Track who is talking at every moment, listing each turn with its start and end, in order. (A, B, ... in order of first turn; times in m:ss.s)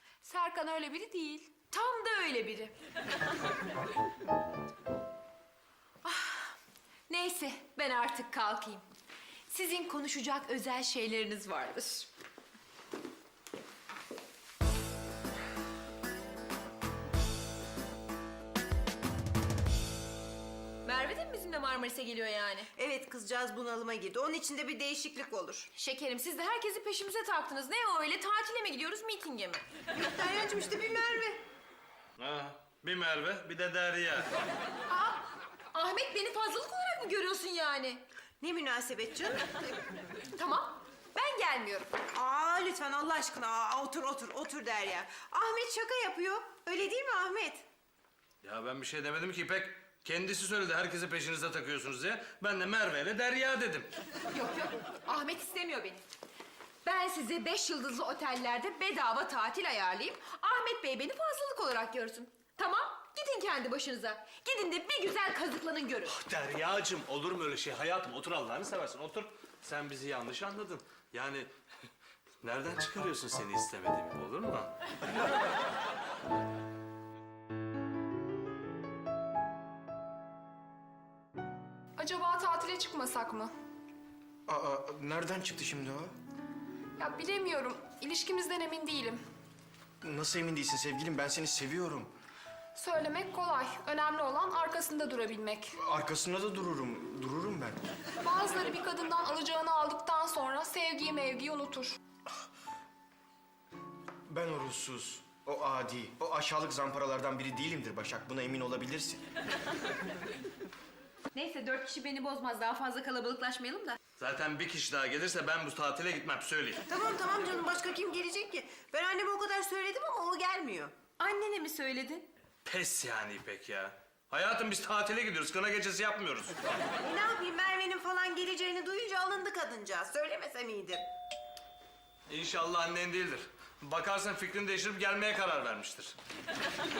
0:00.2-0:01.5 A
0:01.5-0:02.7 B
0:06.0-0:06.5 B
0:07.1-0:08.8 B
0:09.5-0:12.1 B
0:20.8-0:22.7 B
0:22.7-0:25.7 C
0:25.8-0:29.6 B
0:29.9-0:31.4 C
0:32.2-0:34.3 D
0:34.9-0:35.2 B
0:35.7-0:38.0 B
0:38.4-0:39.7 C
0:40.4-0:41.9 B
0:42.1-0:47.6 C
0:48.4-0:53.9 D
0:54.3-0:56.0 B
0:56.8-1:06.2 B
1:06.1-1:11.5 D
1:12.4-1:14.7 D
1:22.0-1:23.5 A
1:24.5-1:26.2 E
1:27.0-1:29.2 A
1:30.0-1:32.1 E
1:32.8-1:35.8 A
1:35.8-1:37.8 E
1:38.2-1:42.0 A
1:44.3-1:49.2 E
1:51.3-1:54.0 B
1:54.2-1:56.8 D
1:56.9-2:00.9 C
2:01.2-2:02.3 B
2:02.7-2:06.6 D
2:07.0-2:11.1 C
2:12.3-2:16.2 D